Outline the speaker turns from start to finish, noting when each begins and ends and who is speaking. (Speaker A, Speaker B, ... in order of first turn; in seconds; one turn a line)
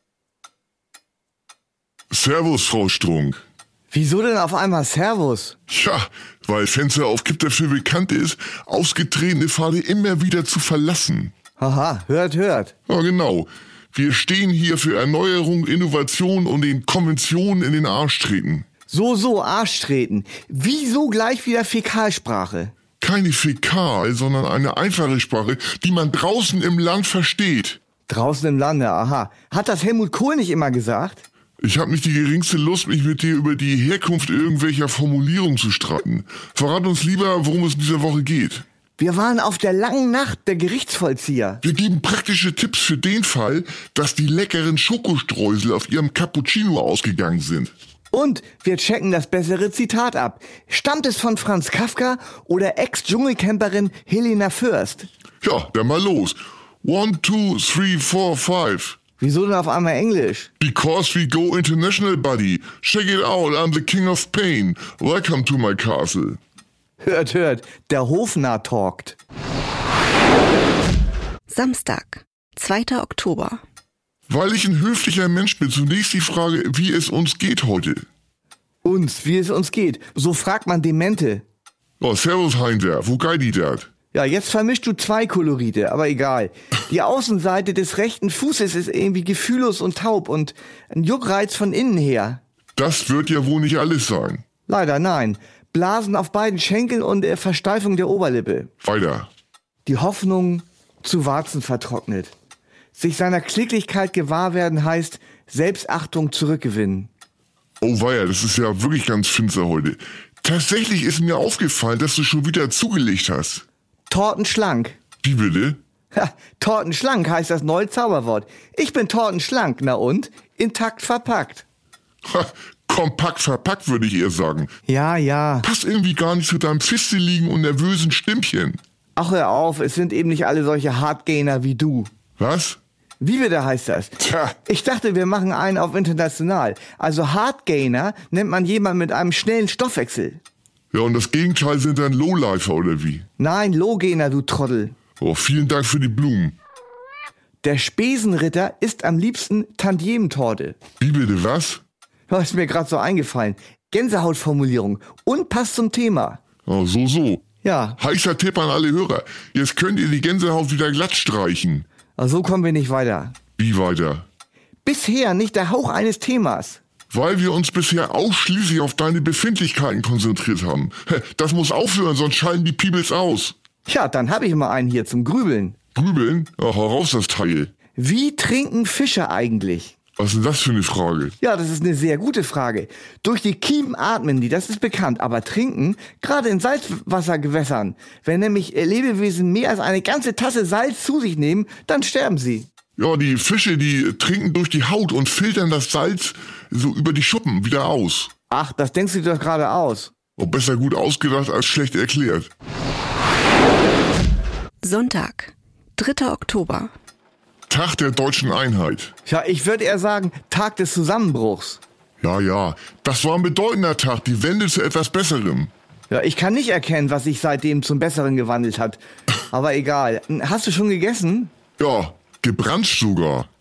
Speaker A: 2.1-3.4
Speaker B: 3.9-5.6
Speaker A: 5.7-11.3
Speaker B: 11.6-12.7
Speaker A: 12.9-18.6
Speaker B: 18.9-22.7
Speaker A: 23.0-27.8
Speaker B: 28.1-31.2
Speaker A: 31.6-38.6
Speaker B: 39.0-41.6
Speaker A: 41.6-47.7
Speaker B: 48.1-55.1
Speaker A: 55.4-59.0
Speaker B: 59.2-60.5
Speaker A: 60.6-66.4
Speaker B: 67.0-69.2
Speaker C: 71.5-73.6
Speaker A: 74.3-78.0
Speaker B: 78.8-81.4
Speaker A: 82.0-83.9
Speaker B: 84.1-92.4
Speaker A: 92.8-94.4
Speaker B: 94.7-98.7
Speaker A: 98.8-99.3
Speaker B: 99.8-102.3
Speaker B: 103.0-107.1
Speaker A: 107.8-113.6
Speaker B: 114.1-115.0
Speaker A: 115.2-115.8
Speaker B: 116.1-121.6
Speaker A: 122.2-124.7
Speaker B: 124.9-125.7
Speaker A: 125.6-128.8
Speaker B: 129.2-132.1
Speaker A: 132.4-132.8
Speaker B: 133.2-140.4
Speaker A: 140.9-143.2
Speaker B: 143.4-144.9
Speaker A: 145.2-146.6
Speaker B: 147.6-150.8
Speaker A: 151.0-151.8
Speaker B: 152.3-156.4
Speaker A: 156.7-157.4
Speaker B: 157.6-158.0
Speaker A: 158.0-161.8
Speaker B: 162.2-163.3
Speaker A: 163.6-164.2
Speaker B: 164.8-166.8
Speaker A: 167.1-173.5
Speaker B: 173.8-175.8
Speaker A: 175.9-177.7
Speaker B: 177.9-179.9
Speaker A: 180.2-181.3
Speaker B: 181.4-192.7
Speaker A: 193.0-198.3
Speaker B: 198.5-200.1
Speaker A: 200.4-202.5
Speaker C: 204.8-206.9
Speaker A: 207.7-209.1
Speaker B: 209.2-211.8
Speaker A: 212.2-215.7
Speaker B: 216.1-221.5
Speaker A: 221.8-223.5